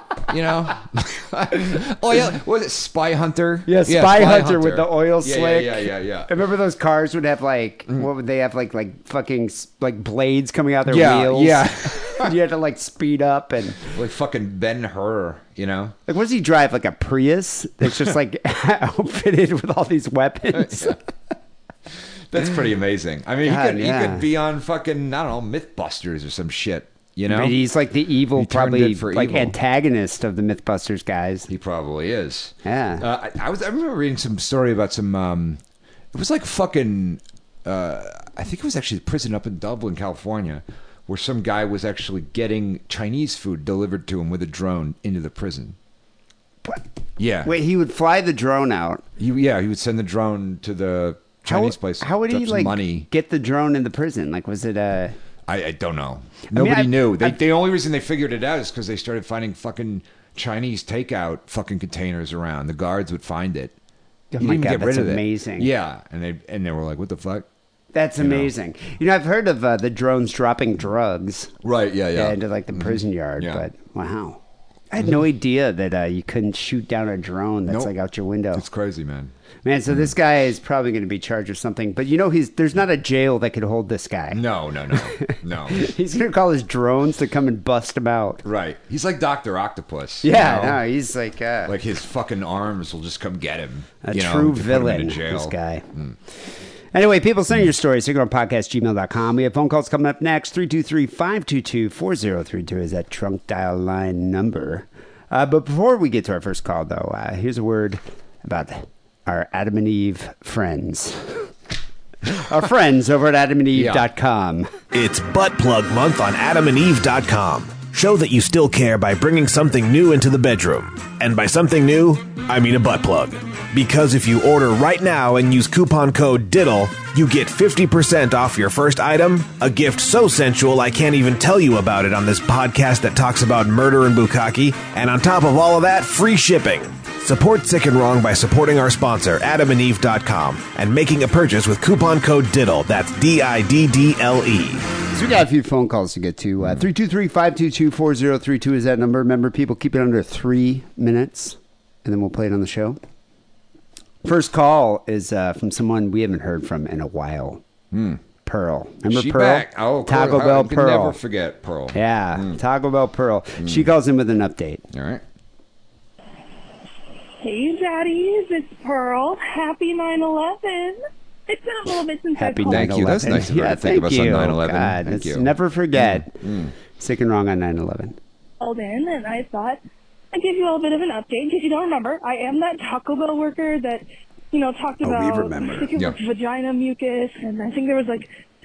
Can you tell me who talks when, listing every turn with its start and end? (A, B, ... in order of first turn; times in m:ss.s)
0:00.3-0:06.3 A
0:03.7-0:13.9 B
0:10.8-0:12.3 A
0:13.8-0:16.0 A
0:16.1-0:21.0 B
0:20.5-0:21.0 A
0:22.3-0:27.6 A
0:23.4-0:24.3 B
0:27.3-0:31.5 B
0:28.3-0:29.6 A
0:31.5-0:35.6 A
0:32.6-0:33.0 B
0:36.1-0:45.8 A
0:47.2-0:47.5 A
0:47.4-0:49.0 B
0:49.2-0:53.1 A
0:51.5-0:55.2 B
0:55.5-1:03.7 A
0:56.5-0:57.4 B
1:04.3-1:05.7 B
1:04.4-1:07.5 A
1:07.9-1:11.5 B
1:08.2-1:08.5 A
1:11.6-1:13.6 A
1:12.1-1:14.4 B
1:14.9-1:18.6 B
1:17.7-1:17.9 A
1:18.5-1:19.3 A
1:19.6-1:24.4 B
1:24.3-1:25.9 A
1:25.1-1:28.4 B
1:28.4-1:30.8 A
1:30.2-1:31.7 B
1:31.6-1:36.2 A
1:34.0-1:35.8 B
1:36.9-1:51.5 B
1:52.3-1:54.7 B
1:53.7-1:54.0 A
1:54.9-2:24.9 C
2:25.1-2:33.0 B
2:34.2-2:37.6 B
2:37.9-2:38.2 A
2:38.4-2:41.2 B
2:39.1-2:42.6 A
2:41.9-2:44.8 B
2:43.6-2:43.9 A
2:44.9-2:45.2 A
2:47.4-2:52.9 D
2:52.3-2:56.4 B
2:52.7-2:56.7 A
2:57.0-2:58.2 B
2:58.6-2:59.8 D
3:00.3-3:08.3 D
3:05.0-3:05.9 B